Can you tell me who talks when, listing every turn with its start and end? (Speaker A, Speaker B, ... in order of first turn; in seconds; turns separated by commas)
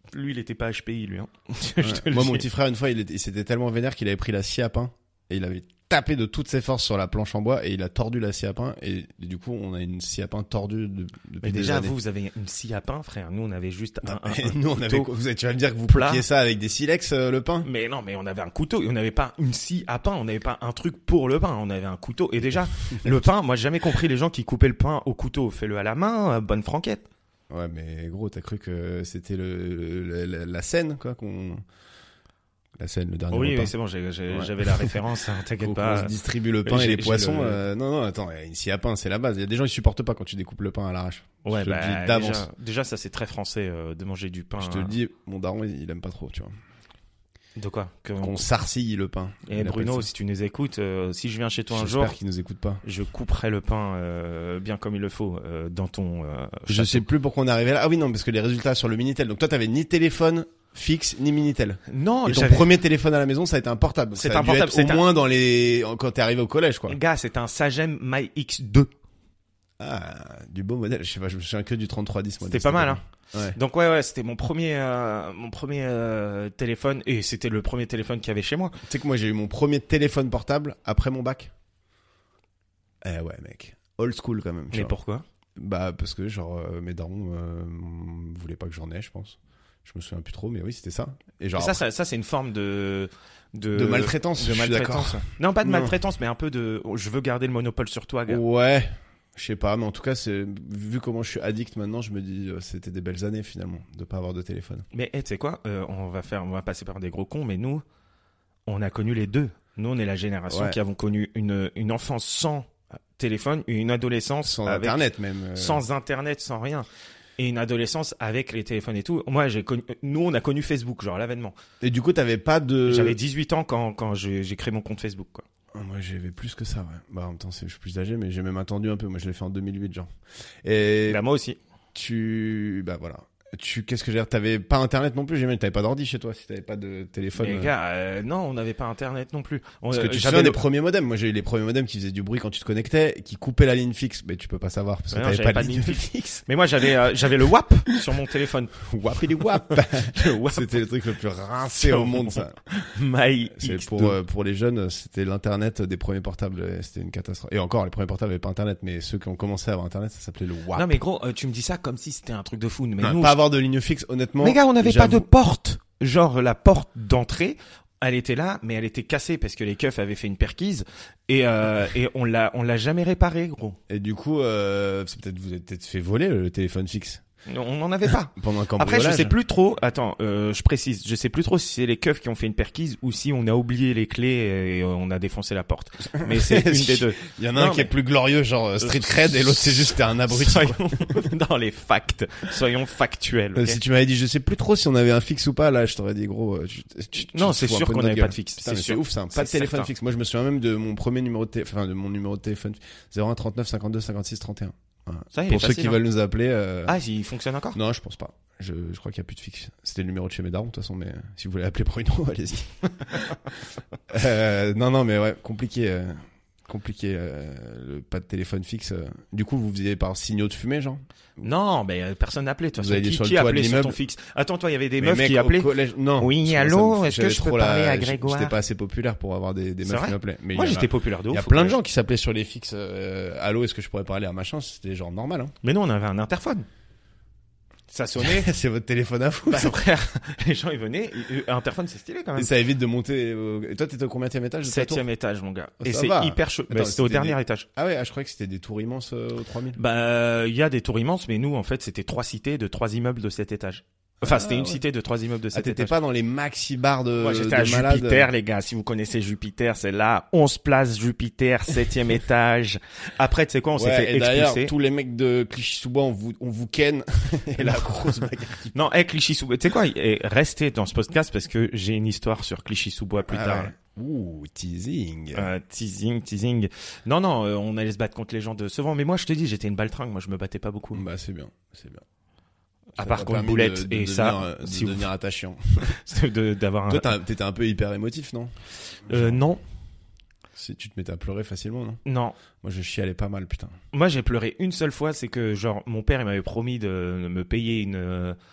Speaker A: 0.1-2.4, Speaker B: 1.8-11.9, Speaker A: 11.4-15.1, Speaker B: 14.0-17.7, Speaker A: 15.9-16.2, Speaker A: 17.6-27.1, Speaker B: 27.5-31.6, Speaker B: 32.8-33.7, Speaker A: 33.3-36.1, Speaker B: 34.3-34.9, Speaker B: 35.6-42.5, Speaker A: 36.6-37.6, Speaker A: 41.4-44.9, Speaker B: 44.6-46.5, Speaker A: 47.5-48.4, Speaker B: 48.2-50.1, Speaker A: 49.5-52.1, Speaker B: 51.7-52.8, Speaker A: 52.8-57.0, Speaker B: 56.7-67.0, Speaker A: 61.9-62.7, Speaker A: 64.1-65.0, Speaker A: 66.9-68.9, Speaker B: 69.8-73.6, Speaker A: 72.5-73.0, Speaker A: 73.5-78.8, Speaker B: 78.8-81.5, Speaker B: 83.0-84.9, Speaker A: 84.7-85.2, Speaker B: 85.6-91.8, Speaker A: 91.5-98.4, Speaker B: 93.7-95.9, Speaker B: 98.3-104.8, Speaker A: 104.9-107.8, Speaker A: 108.7-116.9, Speaker B: 110.5-110.8, Speaker B: 114.4-115.8, Speaker A: 117.4-121.5, Speaker B: 121.8-123.2, Speaker A: 122.9-125.4, Speaker B: 125.7-130.1, Speaker B: 130.6-131.2, Speaker A: 131.1-131.6, Speaker B: 131.9-137.7, Speaker A: 137.4-140.6, Speaker B: 139.9-146.4, Speaker A: 145.1-148.7, Speaker B: 148.8-152.6, Speaker A: 149.5-150.8, Speaker A: 151.8-154.2, Speaker B: 153.5-161.0, Speaker A: 160.7-163.4, Speaker B: 163.0-165.3, Speaker A: 164.4-173.8, Speaker B: 173.9-177.2, Speaker A: 177.5-187.9, Speaker B: 178.3-179.3, Speaker B: 186.2-191.2, Speaker A: 188.8-189.1, Speaker A: 190.3-193.8, Speaker B: 193.5-206.9, Speaker A: 197.2-199.9, Speaker A: 205.3-206.0, Speaker A: 206.9-207.8, Speaker B: 207.7-213.3, Speaker B: 214.1-216.1, Speaker B: 216.7-221.0, Speaker A: 221.4-228.6, Speaker B: 222.8-224.0, Speaker B: 225.0-235.5, Speaker A: 229.8-231.8, Speaker A: 235.6-236.7, Speaker A: 237.9-238.5, Speaker B: 238.2-239.8, Speaker A: 239.5-242.5, Speaker B: 242.3-245.0, Speaker A: 244.6-247.7, Speaker B: 245.8-249.8, Speaker A: 249.8-255.9, Speaker B: 254.2-254.8, Speaker B: 255.5-258.3, Speaker A: 257.2-264.7, Speaker B: 263.8-268.7, Speaker A: 268.7-273.7, Speaker B: 273.3-275.5, Speaker A: 275.3-281.0, Speaker B: 280.9-282.0, Speaker A: 283.0-285.1, Speaker B: 283.0-285.9, Speaker A: 285.9-287.1, Speaker B: 286.9-288.5, Speaker B: 289.1-289.4, Speaker A: 289.1-289.6, Speaker B: 290.6-292.0, Speaker A: 292.0-292.4, Speaker B: 292.6-293.8, Speaker A: 293.9-298.4